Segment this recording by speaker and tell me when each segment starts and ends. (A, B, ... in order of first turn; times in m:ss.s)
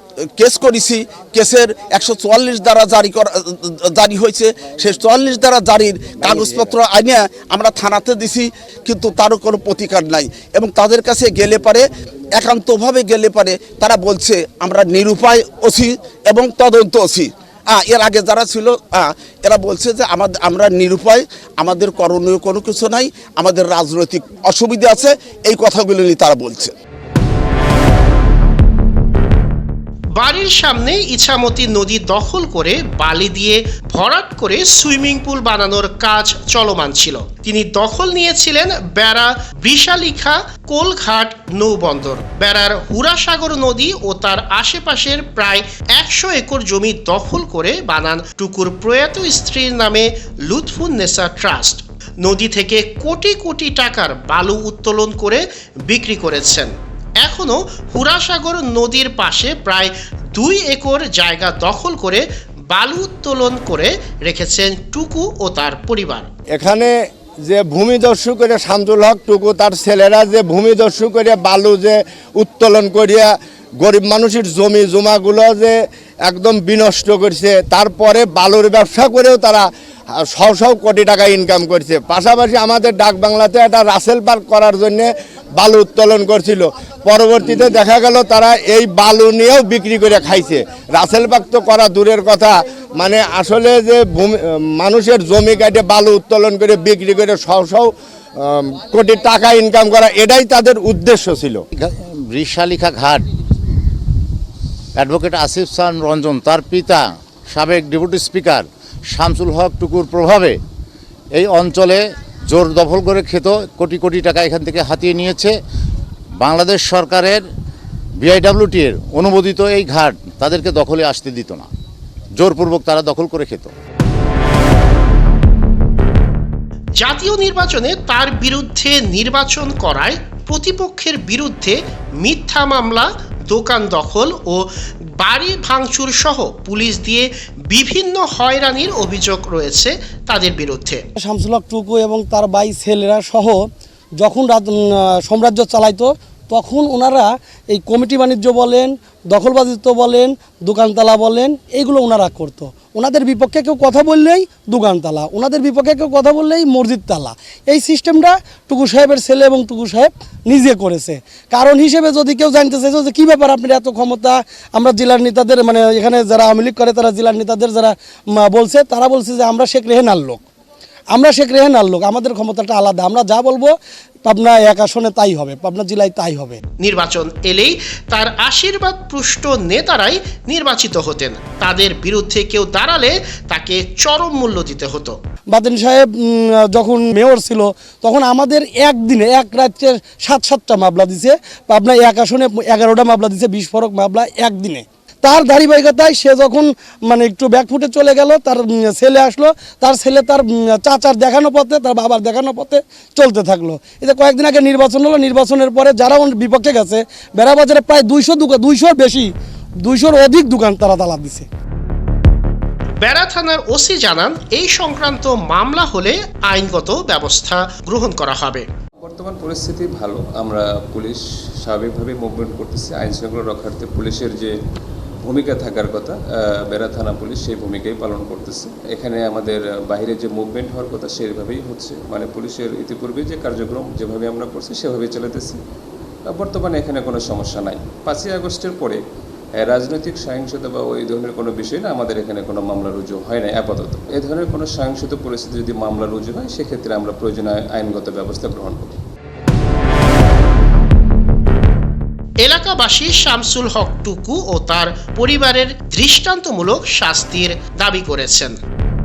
0:00.4-0:26.7 A
0:30.2-1:06.3 B
1:06.5-1:06.9 C
1:07.5-1:15.8 C
1:16.3-1:19.7 C
1:20.3-1:41.6 C
1:41.8-1:43.2 D
1:45.0-1:50.6 D
1:51.4-1:55.5 D
1:56.4-1:57.4 D
1:58.2-2:01.7 D
2:02.4-2:03.7 D
2:07.0-2:21.0 B
2:21.2-2:23.6 E
2:24.2-2:50.4 E
2:51.1-2:53.7 E
2:54.2-2:56.6 E
2:56.8-3:05.2 B
3:05.5-3:31.5 E
3:33.0-3:38.7 B
3:39.0-3:44.5 F
3:45.2-3:55.6 F
3:56.3-3:59.0 F
3:59.6-4:09.0 F
4:12.4-4:18.6 B